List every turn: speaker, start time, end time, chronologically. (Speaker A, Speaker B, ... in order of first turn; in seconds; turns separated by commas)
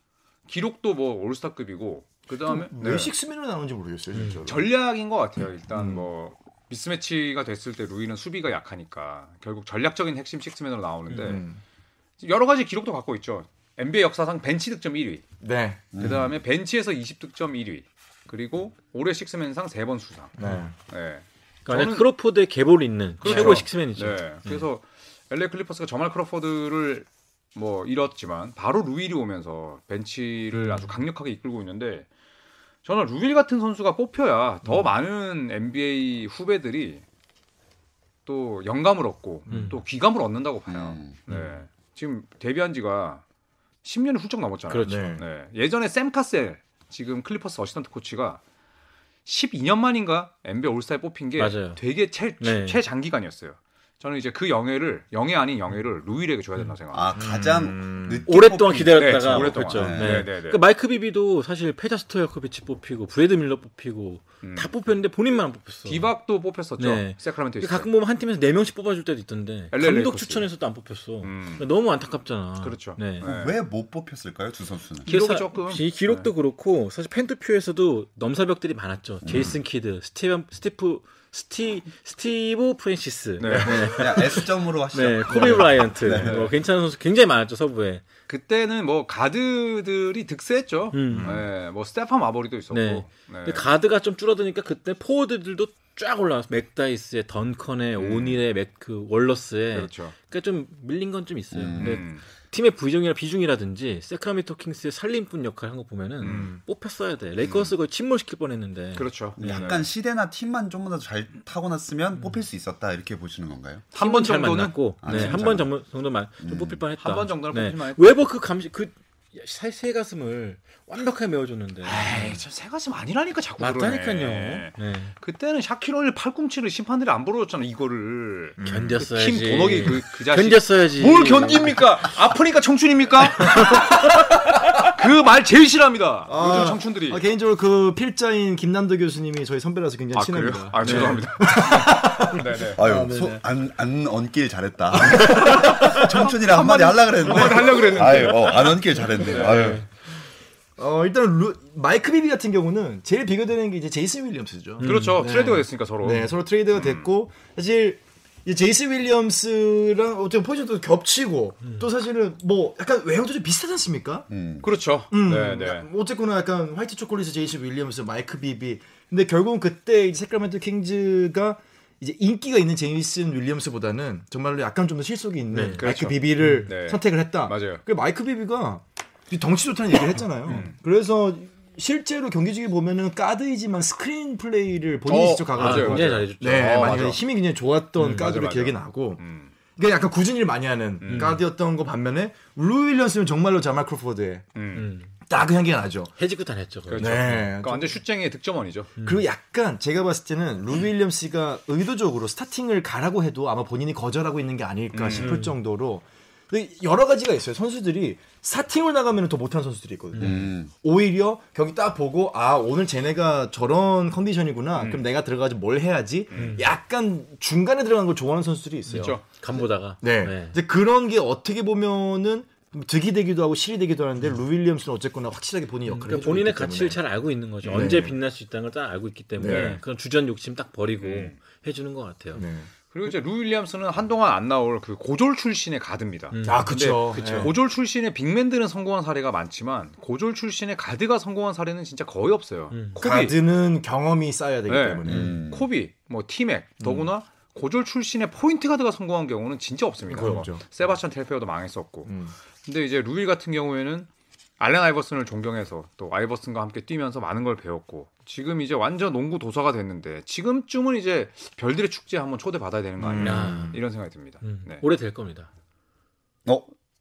Speaker A: 0.5-3.1, Speaker B: 2.5-4.7, Speaker C: 4.1-4.4, Speaker A: 4.5-11.4, Speaker B: 5.7-6.1, Speaker B: 11.1-11.6, Speaker A: 12.2-15.2, Speaker B: 15.4-16.2, Speaker D: 15.9-16.4, Speaker A: 16.0-22.1, Speaker B: 20.4-20.7, Speaker C: 21.7-24.6, Speaker A: 23.2-32.1, Speaker B: 23.2-23.6, Speaker C: 30.6-30.9, Speaker A: 32.9-37.0, Speaker A: 38.3-43.2, Speaker B: 39.5-39.8, Speaker C: 39.5-39.8, Speaker D: 40.7-41.2, Speaker C: 41.3-41.5, Speaker A: 43.8-48.4, Speaker C: 44.7-45.2, Speaker B: 44.9-45.2, Speaker A: 49.3-57.2, Speaker C: 51.4-51.8, Speaker C: 52.4-52.8, Speaker D: 56.9-60.3, Speaker B: 57.1-58.3, Speaker C: 58.3-66.1, Speaker A: 58.9-60.6, Speaker A: 64.4-64.7, Speaker A: 65.9-67.9, Speaker C: 66.8-73.3, Speaker A: 69.7-70.5, Speaker A: 71.2-71.7, Speaker A: 72.6-73.6, Speaker D: 73.2-75.1, Speaker A: 75.0-76.3, Speaker C: 75.1-88.0, Speaker D: 79.2-79.6, Speaker A: 83.4-83.9, Speaker D: 83.6-86.5, Speaker A: 86.1-86.5, Speaker A: 88.3-93.7, Speaker C: 90.9-91.4, Speaker B: 91.1-91.5, Speaker C: 92.7-109.7, Speaker A: 98.0-98.4, Speaker A: 99.7-100.2, Speaker D: 101.5-102.0, Speaker A: 101.8-102.2, Speaker A: 106.2-106.6, Speaker B: 106.2-106.5, Speaker A: 107.4-107.7, Speaker A: 109.0-109.9, Speaker D: 109.4-113.8, Speaker A: 113.9-115.5, Speaker C: 114.0-122.4, Speaker D: 115.0-115.7, Speaker D: 116.4-116.8, Speaker A: 117.0-118.2, Speaker A: 121.8-134.2, Speaker C: 123.6-125.1, Speaker B: 128.6-129.0, Speaker C: 128.6-131.8, Speaker C: 133.4-134.1, Speaker A: 134.8-137.2, Speaker B: 136.3-143.4, Speaker A: 140.1-142.8, Speaker C: 140.8-141.3, Speaker D: 142.8-149.8, Speaker C: 145.3-145.9, Speaker B: 145.3-148.3, Speaker A: 145.6-148.7, Speaker A: 149.2-149.8, Speaker C: 149.3-149.8, Speaker B: 150.8-164.3, Speaker C: 154.8-155.5, Speaker A: 154.8-157.1, Speaker D: 164.3-164.7, Speaker A: 164.6-165.9, Speaker B: 165.1-189.2, Speaker C: 175.5-175.9, Speaker A: 175.8-177.8, Speaker C: 176.4-176.7, Speaker A: 180.4-180.8, Speaker A: 185.1-187.2, Speaker C: 185.6-187.2, Speaker C: 188.0-188.3, Speaker A: 188.0-189.5, Speaker B: 189.8-194.5, Speaker A: 191.0-191.4, Speaker C: 191.1-191.4, Speaker A: 194.6-194.9, Speaker C: 194.8-195.2, Speaker B: 195.3-196.1, Speaker C: 196.2-197.5, Speaker A: 196.9-198.9, Speaker B: 197.0-198.0, Speaker C: 199.0-199.2, Speaker B: 199.0-219.2, Speaker A: 204.9-205.4, Speaker C: 205.1-205.6, Speaker C: 210.1-210.5, Speaker D: 210.2-210.7, Speaker A: 214.8-215.0, Speaker A: 216.3-216.6, Speaker C: 216.3-216.7, Speaker A: 218.9-219.2, Speaker C: 218.9-220.6, Speaker B: 220.0-227.0, Speaker C: 225.9-232.4, Speaker A: 227.6-228.1, Speaker B: 227.7-228.2, Speaker B: 229.4-229.8, Speaker A: 229.4-229.8, Speaker A: 231.0-231.4, Speaker B: 232.3-232.7, Speaker A: 232.9-243.4, Speaker C: 236.3-237.5, Speaker B: 236.4-237.5, Speaker C: 242.7-243.0, Speaker B: 243.0-245.4, Speaker A: 244.7-252.1, Speaker D: 245.1-245.7, Speaker B: 246.8-247.1, Speaker B: 250.1-250.6, Speaker C: 250.2-250.5, Speaker B: 252.1-252.3, Speaker A: 252.6-264.8, Speaker B: 263.0-263.8, Speaker C: 263.2-263.8, Speaker C: 264.4-265.5